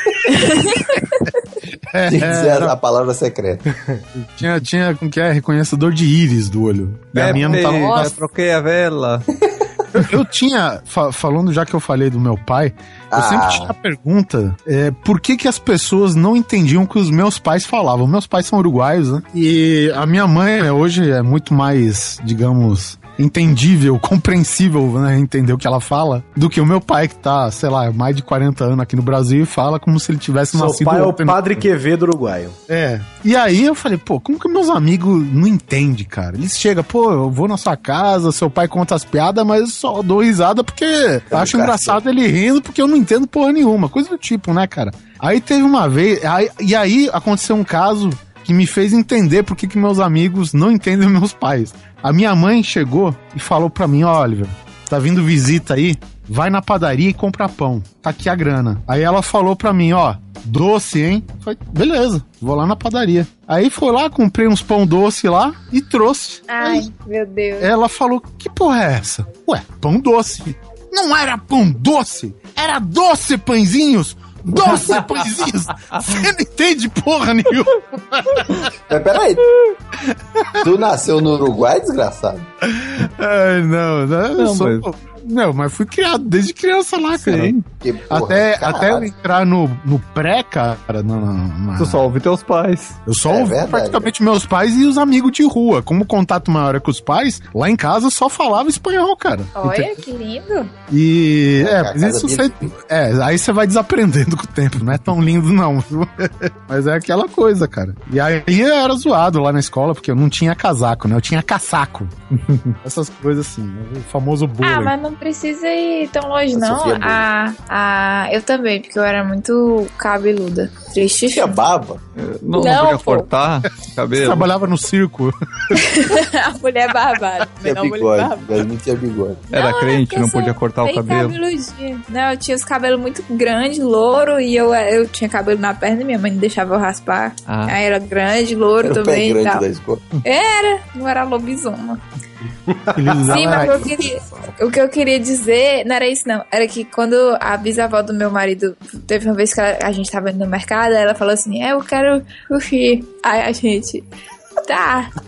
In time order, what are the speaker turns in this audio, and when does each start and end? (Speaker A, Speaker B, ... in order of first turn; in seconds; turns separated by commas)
Speaker A: 0.3-1.0, Speaker B: 1.9-2.7, Speaker C: 2.0-3.6, Speaker B: 4.2-8.1, Speaker D: 7.1-9.2, Speaker A: 7.3-8.1, Speaker B: 10.0-31.6, Speaker C: 13.1-13.7, Speaker E: 30.5-32.6, Speaker B: 32.7-66.9, Speaker C: 41.3-42.0, Speaker A: 66.5-67.7, Speaker B: 67.6-78.7, Speaker C: 78.9-79.4, Speaker B: 80.1-80.4, Speaker C: 80.6-82.5, Speaker B: 82.7-87.5, Speaker D: 84.4-84.9, Speaker D: 87.1-87.6, Speaker C: 87.8-89.1, Speaker B: 88.1-92.0, Speaker D: 91.8-93.0, Speaker B: 93.0-100.0, Speaker C: 93.3-94.1, Speaker A: 99.5-100.7, Speaker B: 100.9-112.1, Speaker C: 101.6-102.7, Speaker D: 112.3-112.8, Speaker B: 112.8-114.9, Speaker A: 114.6-121.5, Speaker C: 116.5-117.2, Speaker C: 121.3-122.0, Speaker D: 122.2-124.5, Speaker A: 122.5-123.3, Speaker B: 124.1-125.7, Speaker A: 125.7-128.5, Speaker C: 127.6-129.4, Speaker A: 129.5-139.6, Speaker D: 129.5-131.4, Speaker D: 137.5-137.8, Speaker C: 138.8-140.0, Speaker A: 140.2-142.0, Speaker E: 142.7-143.4, Speaker B: 142.9-143.9, Speaker A: 143.3-154.0, Speaker C: 143.3-144.5, Speaker A: 154.7-155.1